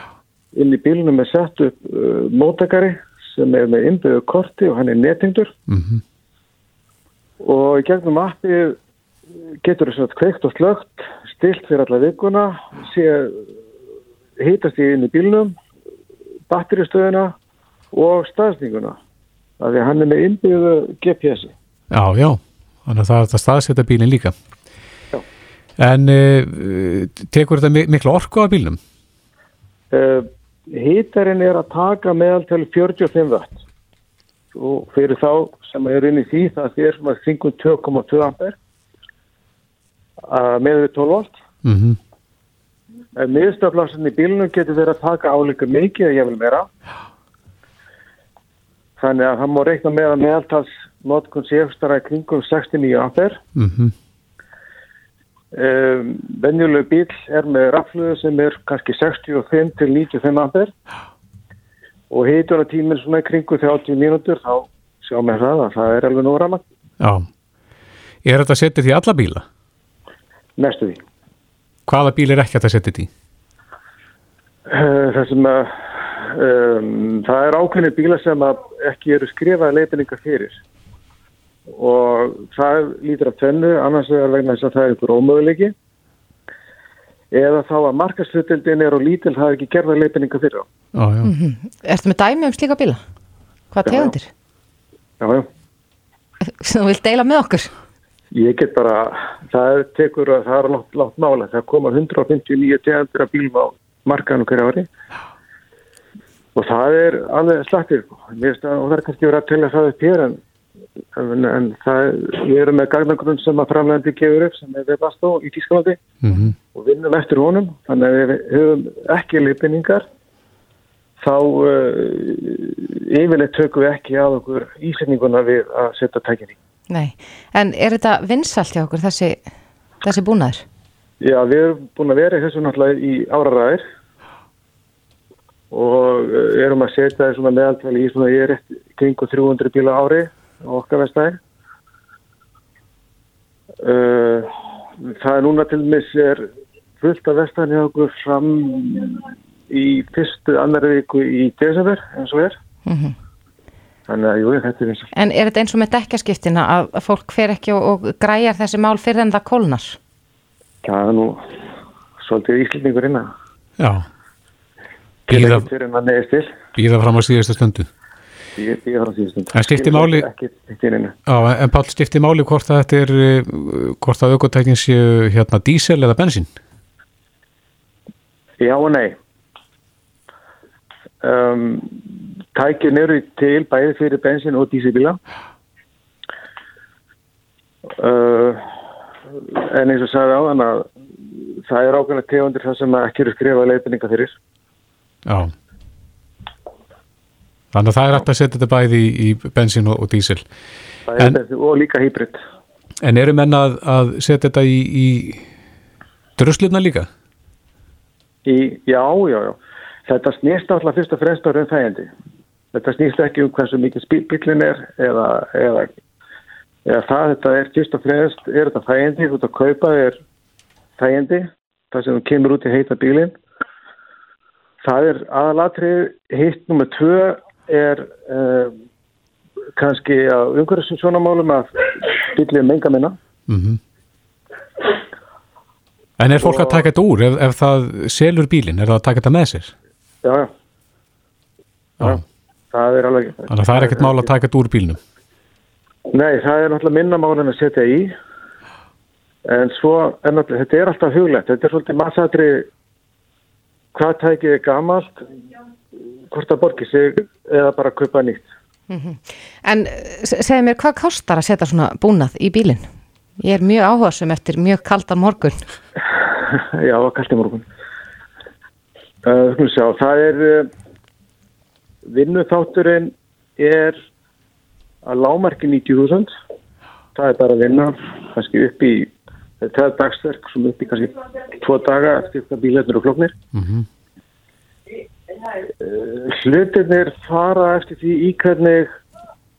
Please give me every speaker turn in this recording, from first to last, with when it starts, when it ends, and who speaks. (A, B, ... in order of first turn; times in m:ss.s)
0:00.5-0:05.5 A
0:05.7-0:06.0 B
0:07.4-0:08.8 A
0:09.6-0:13.5 A
0:14.4-0:15.6 A
0:16.5-0:17.4 A
0:17.9-0:19.0 A
0:19.6-0:21.5 A
0:21.9-0:24.3 B
0:25.8-0:28.8 B
0:29.9-0:33.6 A
0:34.6-0:38.6 A
0:40.3-0:41.3 A
0:41.6-0:42.0 B
0:43.2-0:46.7 A
0:49.0-0:53.4 A
0:53.6-0:53.9 B
0:55.5-1:00.7 A
1:02.1-1:06.6 A
1:07.0-1:07.3 B
1:08.2-1:09.4 B
1:10.6-1:11.0 A
1:11.9-1:13.1 B
1:14.7-1:20.6 A
1:21.7-1:25.7 A
1:27.3-1:30.7 A
1:31.0-1:31.3 B
1:31.2-1:33.0 C
1:33.7-1:34.3 C
1:33.9-1:34.1 A
1:35.2-1:35.5 A
1:36.4-1:37.7 C
1:38.3-1:44.9 A
1:46.6-1:50.4 A
1:51.2-1:56.0 A
1:56.2-1:56.6 B
1:56.7-2:00.1 A
2:01.2-2:06.6 A
2:06.9-2:09.4 C
2:10.0-2:10.6 C
2:11.2-2:13.8 A
2:15.7-2:21.4 A
2:23.8-2:26.5 A
2:27.0-2:32.6 A
2:32.9-2:33.2 C
2:34.1-2:35.1 A
2:35.1-2:40.0 C
2:40.8-2:41.5 A
2:42.2-2:43.3 A
2:43.8-2:44.1 B
2:45.3-2:46.5 A
2:45.3-2:45.6 B
2:46.8-2:47.9 B
2:48.6-2:51.1 A
2:49.5-2:50.2 B
2:51.3-2:56.5 B
2:58.6-2:59.2 A
3:01.2-3:05.2 A
3:08.0-3:08.7 A
3:09.3-3:10.9 A
3:11.7-3:14.4 A
3:15.3-3:15.5 B
3:17.7-3:20.4 B
3:21.1-3:22.4 A
3:23.0-3:25.5 B
3:26.4-3:27.1 B
3:28.5-3:32.1 A
3:32.7-3:35.9 A
3:36.9-3:40.2 A
3:41.0-3:43.4 A
3:44.8-3:48.8 A
3:49.8-3:53.2 A
3:53.5-3:53.8 B
3:56.2-3:59.7 B
3:56.4-3:56.9 A
4:00.2-4:00.5 A
4:02.7-4:04.3 A
4:03.5-4:05.0 B
4:06.1-4:08.1 A
4:09.5-4:12.7 A
4:13.9-4:15.2 A
4:16.3-4:18.5 A
4:18.9-4:22.9 C
4:23.4-4:25.6 C
4:26.1-4:27.7 A
4:29.2-4:30.7 A
4:32.1-4:34.0 A
4:35.0-4:36.3 A
4:37.2-4:43.4 A
4:43.5-4:43.9 B
4:45.8-4:49.0 A